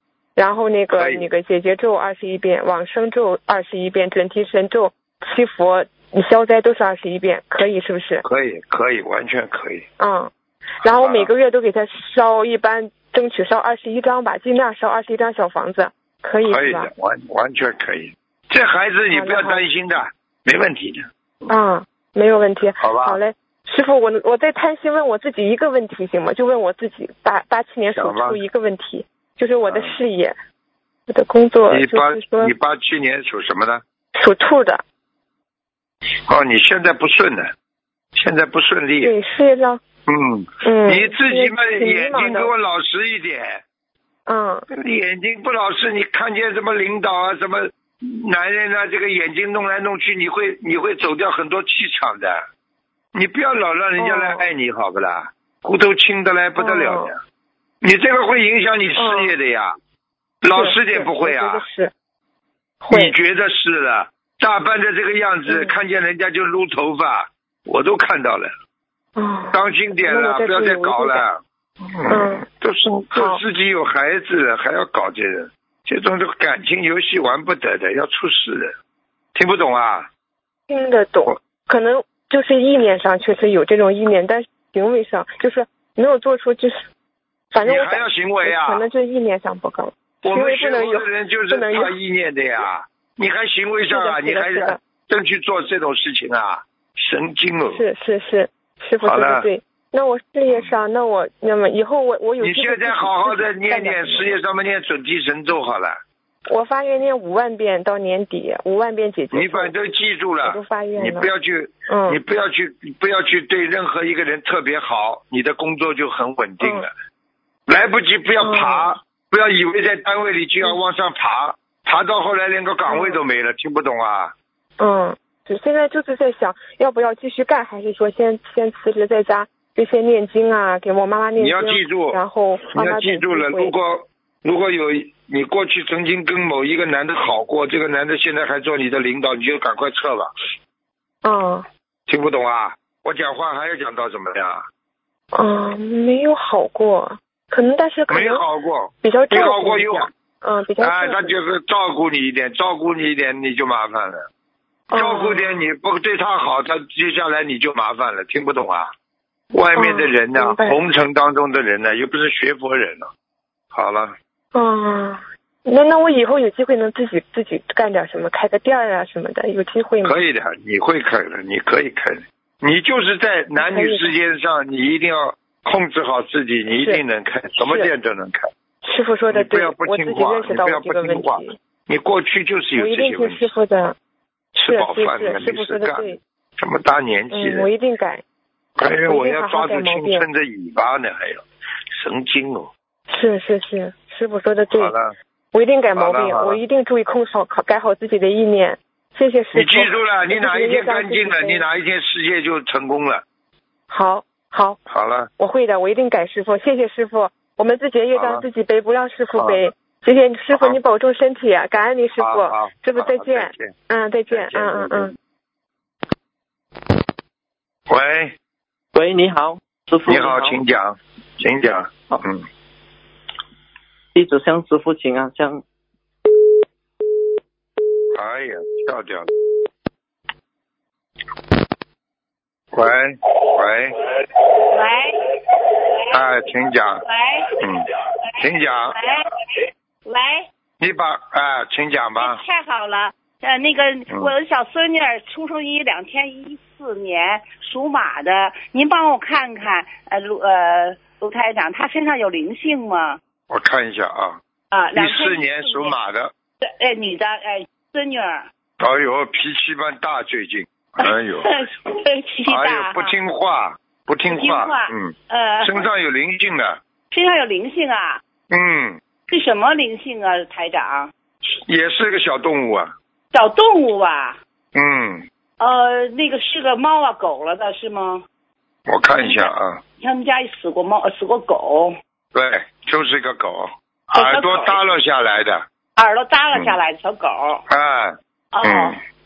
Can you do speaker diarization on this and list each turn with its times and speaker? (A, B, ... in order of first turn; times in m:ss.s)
0:00.4-0:08.2 A
0:00.9-0:01.2 B
0:08.2-0:09.8 B
0:10.0-0:16.9 A
0:10.8-0:11.3 B
0:16.4-0:21.1 B
0:19.1-0:19.6 A
0:21.5-0:30.3 A
0:22.8-0:23.2 B
0:27.9-0:28.4 B
0:29.7-0:30.0 B
0:31.1-0:32.5 A
0:31.7-0:33.8 B
0:34.2-0:34.8 A
0:36.3-0:37.5 B
0:38.1-0:39.1 B
0:39.0-0:39.8 A
0:40.0-0:43.6 B
0:40.6-0:42.5 A
0:44.3-0:44.6 A
0:44.7-0:52.4 B
0:53.1-0:57.2 B
0:54.0-0:54.4 A
0:56.6-0:57.1 A
0:57.8-0:59.7 B
0:59.0-0:59.3 A
1:00.4-1:01.6 B
1:00.5-1:01.9 A
1:02.8-1:03.1 A
1:02.9-1:08.5 B
1:05.5-1:05.7 A
1:09.2-1:11.2 A
1:09.5-1:11.4 B
1:11.9-1:18.7 B
1:12.1-1:12.4 A
1:13.1-1:13.4 A
1:19.3-1:20.1 B
1:20.7-1:26.8 A
1:27.5-1:31.9 A
1:27.6-1:28.8 B
1:30.2-1:37.8 B
1:33.9-1:34.8 A
1:37.7-1:44.4 A
1:39.0-1:39.5 B
1:42.4-1:46.0 B
1:46.5-1:49.7 A
1:49.3-1:56.9 B
1:50.4-1:51.3 A
1:51.9-1:52.2 A
1:56.6-1:56.9 A
1:57.7-2:04.3 B
1:58.4-1:58.9 A
2:02.8-2:03.2 A
2:04.8-2:13.7 A
2:11.4-2:12.2 B
2:12.7-2:20.3 B
2:21.2-2:21.6 A
2:22.1-2:24.6 B
2:25.3-2:28.4 A
2:28.1-2:30.1 B
2:29.0-2:31.3 A
2:30.8-2:34.2 B
2:34.9-2:35.6 A
2:34.9-2:38.9 B
2:39.5-2:43.1 B
2:39.7-2:40.8 A
2:43.7-2:44.1 B
2:44.5-2:50.2 A
2:50.0-2:58.5 B
2:53.6-2:54.1 A
2:56.7-2:57.0 A
2:57.6-2:57.9 A
2:58.8-3:01.6 A
2:59.3-3:03.5 B
3:02.8-3:04.0 A
3:04.5-3:07.7 B
3:04.6-3:06.2 A
3:07.3-3:08.2 A
3:08.8-3:12.7 B
3:09.0-3:10.3 A
3:13.1-3:14.9 A
3:14.7-3:15.1 B
3:15.5-3:21.6 A
3:16.0-3:16.6 B
3:19.5-3:23.2 B
3:23.9-3:24.8 A
3:24.9-3:25.3 B
3:25.4-3:35.1 A
3:28.1-3:28.4 B
3:30.5-3:30.8 B
3:32.2-3:33.7 B
3:34.3-3:35.1 B
3:37.9-3:38.3 B
3:38.9-3:40.6 C
3:40.0-3:42.4 B
3:44.1-3:45.6 C
3:48.1-3:49.3 B
3:52.7-3:54.0 B
3:54.7-3:55.2 D
3:56.1-3:57.0 B
3:57.0-3:57.6 D
3:57.6-3:57.9 B
3:58.4-3:59.0 B
3:58.9-3:59.4 D
4:00.0-4:00.5 D
4:00.8-4:02.4 B
4:02.2-4:13.2 D
4:13.5-4:14.4 B
4:14.7-4:15.9 D
4:14.9-4:16.3 B
4:16.6-4:18.4 D
4:18.8-4:21.5 B
4:21.0-4:23.1 D
4:22.4-4:26.8 B
4:24.3-4:25.9 D
4:27.1-4:28.2 D
4:28.5-4:29.0 B
4:29.3-4:31.1 D
4:31.7-4:32.9 B
4:33.3-4:34.4 D
4:34.7-4:35.2 B
4:35.6-4:38.2 D
4:38.9-4:39.8 B
4:39.2-4:41.9 D
4:42.3-4:45.6 B
4:44.1-4:44.8 D
4:46.0-4:47.6 D
4:47.7-4:49.0 B
4:48.5-4:49.0 D